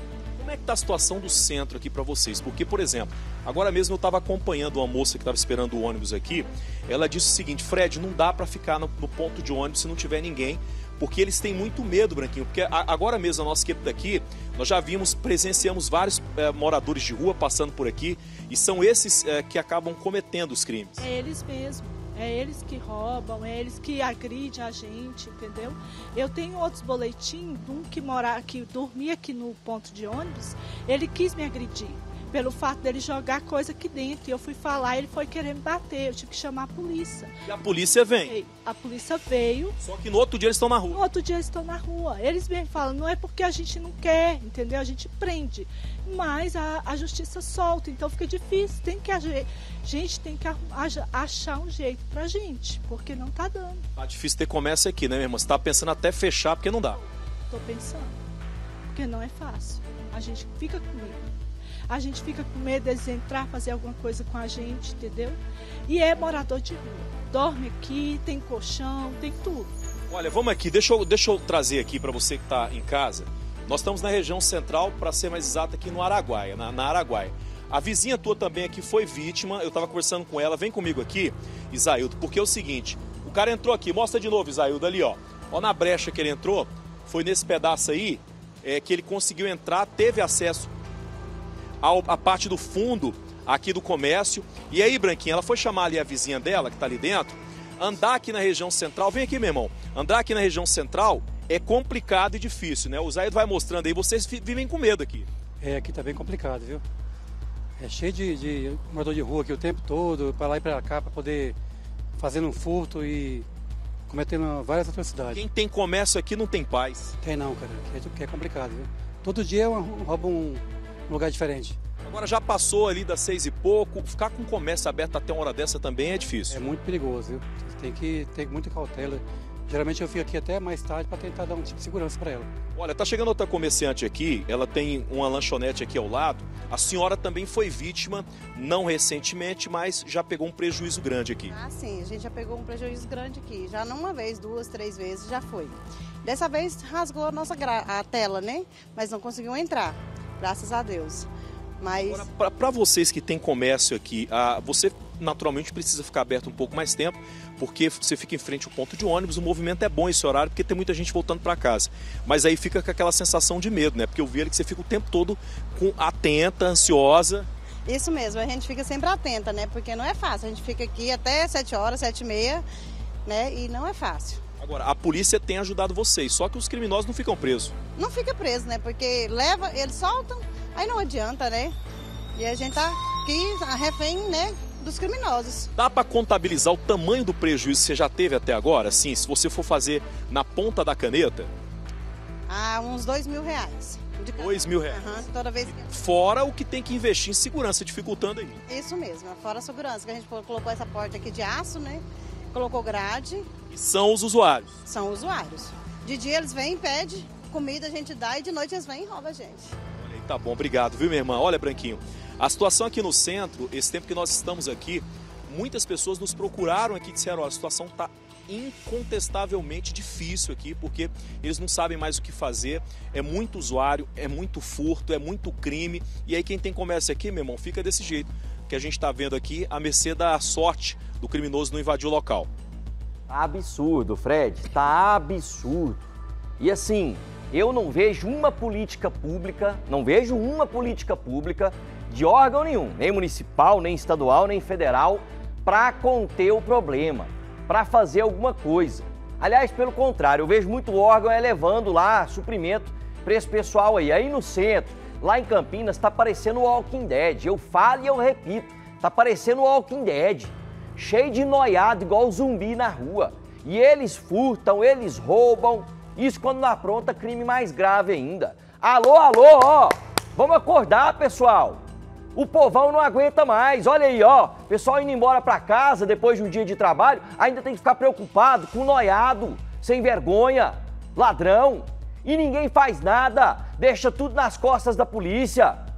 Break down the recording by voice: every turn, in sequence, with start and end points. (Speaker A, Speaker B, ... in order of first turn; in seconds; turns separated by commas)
Speaker A: 0.4-21.1, Speaker B: 21.0-37.3, Speaker A: 37.5-38.4, Speaker B: 38.3-39.8, Speaker A: 39.8-41.0, Speaker B: 40.9-53.8, Speaker A: 54.0-57.0, Speaker B: 57.0-58.2, Speaker B: 58.9-61.2, Speaker B: 61.9-69.7, Speaker A: 70.1-90.7, Speaker A: 91.8-105.3, Speaker C: 105.6-106.8, Speaker C: 107.8-111.6, Speaker C: 112.2-113.5, Speaker C: 114.1-115.4, Speaker A: 115.3-117.2, Speaker C: 117.2-121.8, Speaker A: 122.0-126.6, Speaker C: 126.5-132.5, Speaker A: 132.8-141.6, Speaker D: 141.5-151.3, Speaker D: 151.8-152.2, Speaker A: 152.0-167.5, Speaker D: 167.9-172.7, Speaker D: 173.3-174.4, Speaker A: 174.6-177.8, Speaker D: 177.9-181.8, Speaker D: 182.4-185.7, Speaker A: 185.8-191.5, Speaker D: 192.5-195.9, Speaker A: 194.4-198.6, Speaker D: 198.7-203.5, Speaker A: 203.7-204.9, Speaker D: 204.9-209.8, Speaker A: 210.0-232.5, Speaker E: 233.3-236.0, Speaker E: 236.6-271.8, Speaker E: 272.4-285.8